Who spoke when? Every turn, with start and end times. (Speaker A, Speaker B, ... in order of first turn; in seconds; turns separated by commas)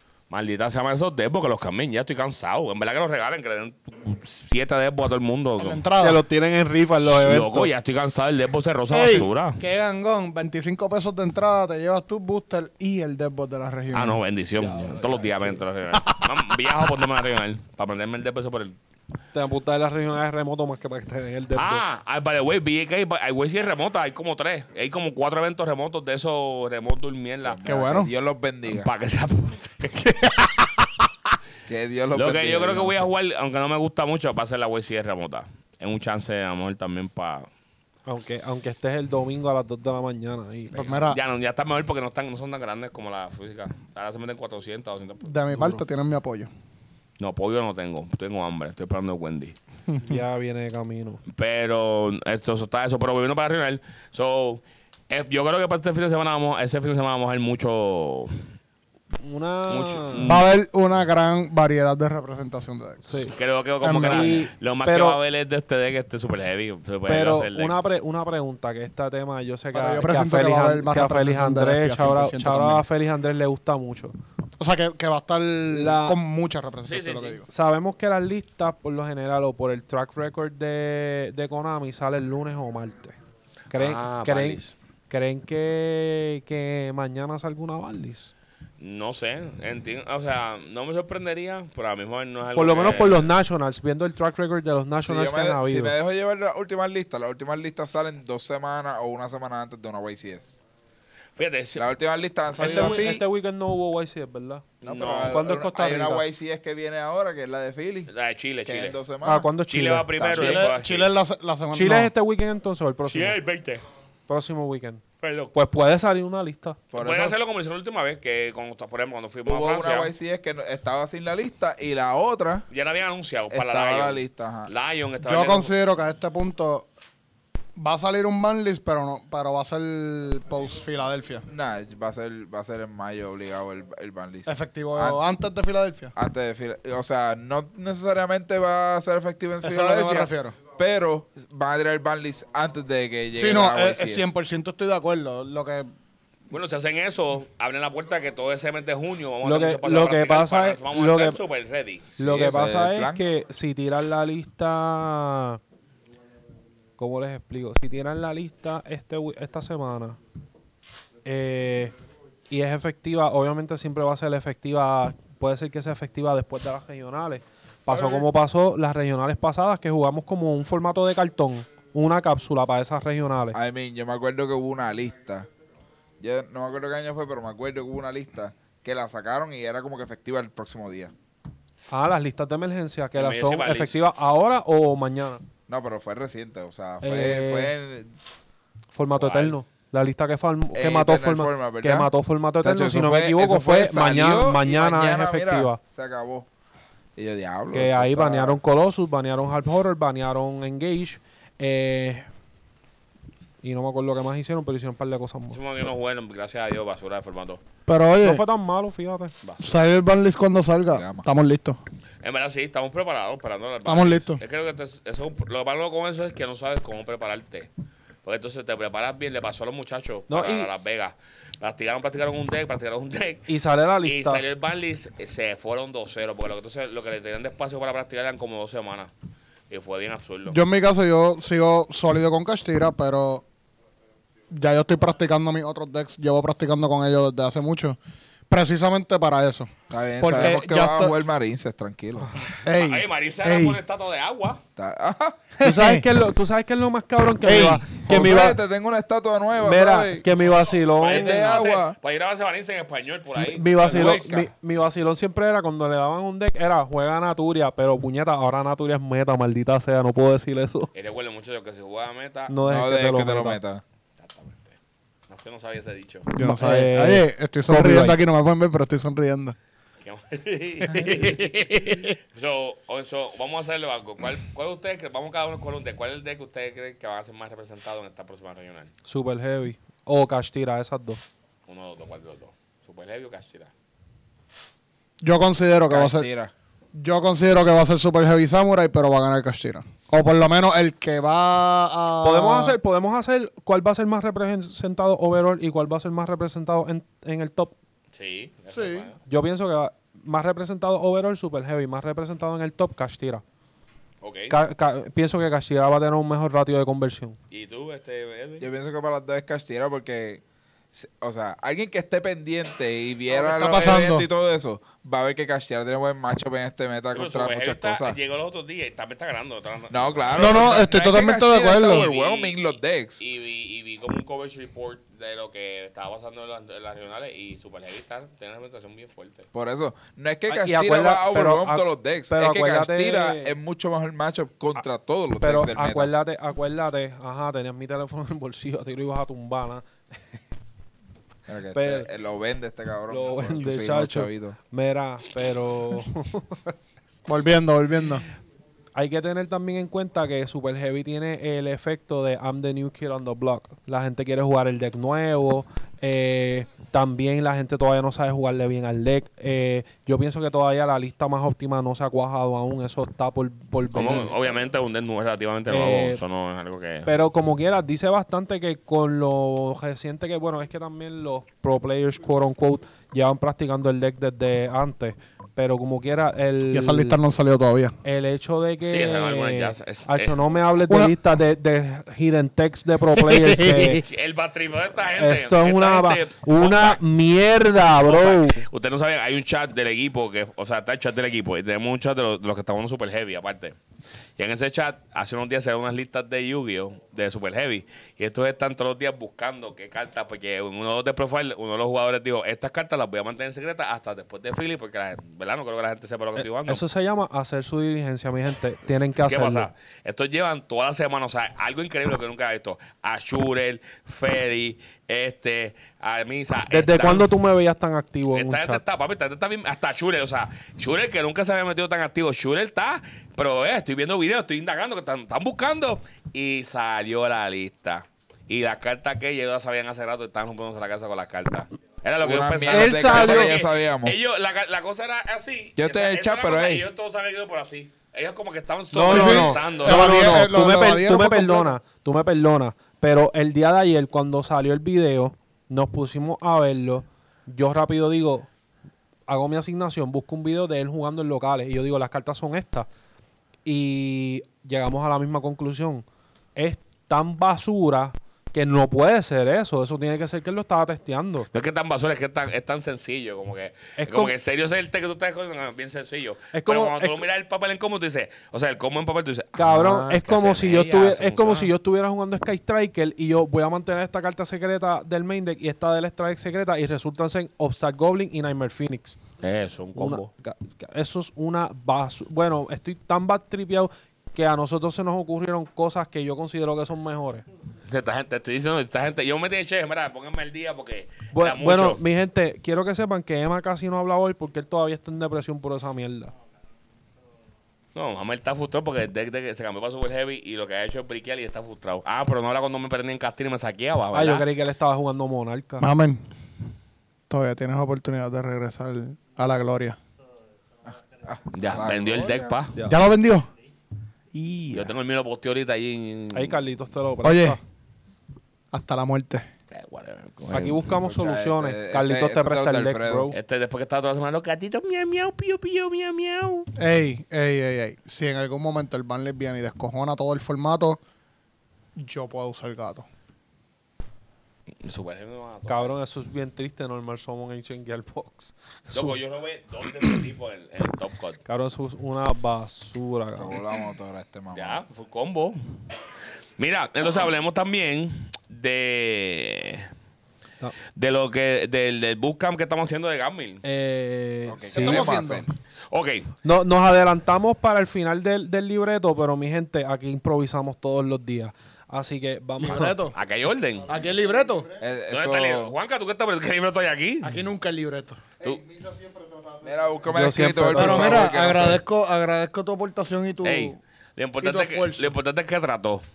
Speaker A: 0.3-5.8, Speaker B: 5.6-6.2, Speaker C: 6.0-7.7, Speaker A: 7.0-9.6, Speaker B: 8.9-14.2, Speaker A: 13.9-18.8, Speaker C: 14.6-15.6, Speaker B: 15.9-16.7, Speaker C: 19.3-21.8, Speaker A: 21.5-27.8, Speaker D: 27.4-28.9, Speaker B: 27.6-28.1, Speaker A: 28.7-30.7, Speaker D: 31.7-33.1, Speaker A: 32.1-37.5, Speaker C: 38.0-40.9, Speaker B: 40.7-41.2, Speaker A: 40.9-45.3, Speaker B: 45.2-46.5, Speaker C: 45.5-45.8, Speaker A: 47.2-49.5, Speaker B: 49.9-50.2, Speaker C: 50.0-51.2, Speaker A: 51.3-58.4, Speaker C: 59.2-60.3, Speaker A: 59.7-60.5, Speaker B: 60.2-63.2, Speaker C: 63.0-63.3, Speaker A: 63.3-67.8, Speaker B: 63.8-64.4, Speaker C: 63.9-65.2, Speaker C: 67.1-74.1, Speaker B: 69.7-72.8, Speaker B: 74.6-77.5, Speaker C: 75.7-76.2, Speaker A: 76.8-77.4, Speaker C: 77.5-83.2, Speaker C: 83.7-88.3, Speaker A: 83.7-84.7, Speaker A: 88.8-93.3, Speaker C: 92.5-95.9, Speaker D: 95.0-100.6, Speaker A: 101.3-101.9, Speaker D: 101.8-103.2, Speaker C: 102.6-104.7, Speaker A: 104.8-105.4, Speaker D: 104.8-108.1, Speaker C: 105.2-106.2, Speaker A: 108.1-109.0, Speaker D: 108.6-109.5, Speaker C: 109.2-110.1, Speaker A: 109.7-111.1, Speaker D: 110.2-110.7, Speaker B: 110.3-112.1, Speaker C: 111.7-113.4, Speaker A: 113.0-113.8, Speaker C: 114.3-116.8, Speaker A: 115.2-115.5, Speaker D: 116.9-117.3, Speaker A: 116.9-120.1, Speaker D: 119.5-122.7, Speaker A: 122.7-125.7, Speaker D: 123.5-124.7, Speaker B: 125.2-126.9, Speaker B: 127.8-131.5, Speaker D: 131.5-135.2, Speaker B: 134.4-136.1, Speaker D: 136.1-144.3, Speaker B: 139.6-140.5, Speaker B: 143.3-145.9, Speaker A: 146.5-152.1, Speaker C: 149.4-151.4, Speaker C: 152.2-155.6, Speaker D: 152.2-153.2, Speaker C: 157.0-160.2, Speaker C: 161.2-161.9, Speaker C: 162.5-173.6, Speaker D: 167.9-168.3, Speaker D: 173.5-175.5, Speaker D: 176.2-181.1, Speaker C: 181.9-185.4, Speaker A: 183.1-184.0, Speaker D: 185.7-188.1, Speaker C: 187.0-187.7, Speaker C: 188.9-195.8, Speaker A: 189.1-189.6, Speaker D: 190.7-196.5, Speaker D: 197.2-198.5, Speaker C: 197.7-202.3, Speaker C: 203.6-205.6, Speaker A: 205.5-207.6, Speaker B: 207.9-208.4, Speaker C: 208.2-209.3, Speaker A: 209.4-209.8, Speaker B: 209.6-211.8, Speaker D: 210.9-211.2, Speaker A: 212.2-217.7, Speaker B: 213.8-214.4, Speaker A: 218.2-223.5, Speaker C: 220.3-220.7, Speaker C: 223.5-224.4, Speaker A: 224.0-229.1, Speaker A: 229.7-230.6, Speaker B: 230.5-233.4, Speaker B: 234.5-238.0, Speaker B: 238.5-241.2, Speaker D: 239.9-242.3, Speaker A: 242.5-244.6, Speaker B: 242.6-243.8, Speaker D: 244.8-245.4, Speaker B: 245.6-246.1, Speaker C: 245.6-248.6, Speaker B: 247.4-248.4, Speaker D: 248.1-250.3, Speaker C: 249.6-251.7, Speaker A: 250.4-254.5, Speaker D: 251.0-251.9, Speaker C: 253.4-260.9, Speaker A: 260.9-262.5, Speaker C: 262.5-263.6, Speaker D: 262.6-263.8, Speaker A: 264.2-264.8, Speaker A: 265.3-266.3, Speaker B: 266.3-269.6, Speaker C: 266.4-268.2, Speaker A: 270.0-278.9, Speaker C: 279.0-281.2, Speaker A: 281.7-283.7, Speaker B: 285.2-286.3, Speaker D: 285.9-286.5, Speaker B: 286.9-292.8, Speaker C: 292.2-297.7, Speaker A: 298.1-299.2, Speaker B: 298.7-299.1, Speaker C: 299.3-303.4, Speaker A: 304.2-304.6, Speaker C: 304.5-307.4, Speaker A: 307.5-308.7, Speaker D: 308.6-318.2, Speaker B: 313.3-314.3, Speaker A: 317.1-320.8, Speaker D: 319.9-323.2, Speaker B: 320.3-322.1, Speaker A: 321.8-322.7, Speaker A: 323.2-329.5, Speaker D: 329.5-336.1, Speaker C: 330.5-333.5, Speaker C: 335.4-340.4, Speaker D: 341.5-344.6, Speaker C: 341.7-342.1, Speaker C: 343.1-346.8, Speaker B: 347.2-348.2, Speaker C: 348.9-364.3, Speaker A: 363.9-367.1, Speaker C: 365.7-366.2, Speaker C: 367.1-377.2, Speaker B: 376.7-377.9, Speaker C: 378.0-384.0, Speaker A: 378.8-380.4, Speaker B: 380.9-381.1, Speaker B: 383.3-384.0, Speaker A: 384.0-387.0, Speaker C: 385.2-388.6, Speaker A: 387.8-393.8, Speaker A: 394.4-406.8, Speaker C: 406.4-409.7, Speaker A: 409.2-417.3, Speaker C: 416.7-418.8, Speaker A: 418.3-440.2, Speaker D: 432.2-434.1, Speaker C: 432.7-433.6, Speaker D: 435.8-436.9, Speaker C: 438.9-448.5, Speaker B: 439.0-441.8, Speaker C: 449.3-452.9, Speaker C: 453.6-456.0, Speaker C: 456.6-461.5, Speaker A: 461.5-471.7, Speaker C: 464.0-464.3, Speaker C: 466.5-467.2, Speaker C: 469.6-479.2, Speaker A: 479.4-480.3, Speaker C: 479.9-487.4, Speaker A: 487.9-492.0, Speaker C: 491.3-496.3, Speaker A: 497.9-504.5, Speaker C: 504.1-505.9, Speaker B: 505.8-506.2, Speaker B: 507.3-510.0, Speaker D: 510.9-512.6, Speaker A: 511.5-512.9, Speaker C: 512.8-513.1, Speaker B: 512.9-513.5, Speaker B: 514.3-514.9, Speaker A: 514.7-516.6, Speaker C: 516.3-517.6, Speaker B: 517.2-517.6, Speaker B: 518.7-519.5, Speaker A: 519.7-520.8, Speaker C: 520.5-523.3, Speaker D: 520.9-523.3, Speaker A: 523.3-526.7, Speaker B: 526.8-531.0, Speaker B: 532.0-533.1, Speaker A: 534.8-536.0, Speaker C: 535.7-539.2, Speaker A: 538.9-541.4, Speaker C: 541.5-543.6, Speaker D: 543.4-544.8, Speaker A: 544.5-545.6, Speaker A: 546.6-549.9, Speaker A: 550.9-553.6, Speaker C: 553.6-555.1, Speaker D: 554.5-555.5, Speaker B: 554.7-555.5, Speaker A: 555.9-556.3, Speaker C: 556.4-563.0, Speaker B: 562.6-563.1, Speaker A: 563.1-564.0, Speaker B: 563.9-564.7, Speaker D: 564.8-565.7, Speaker A: 565.1-567.4, Speaker B: 567.2-569.6, Speaker D: 569.6-571.8, Speaker C: 570.1-571.3, Speaker B: 570.7-573.8, Speaker A: 573.4-576.0, Speaker B: 574.4-575.1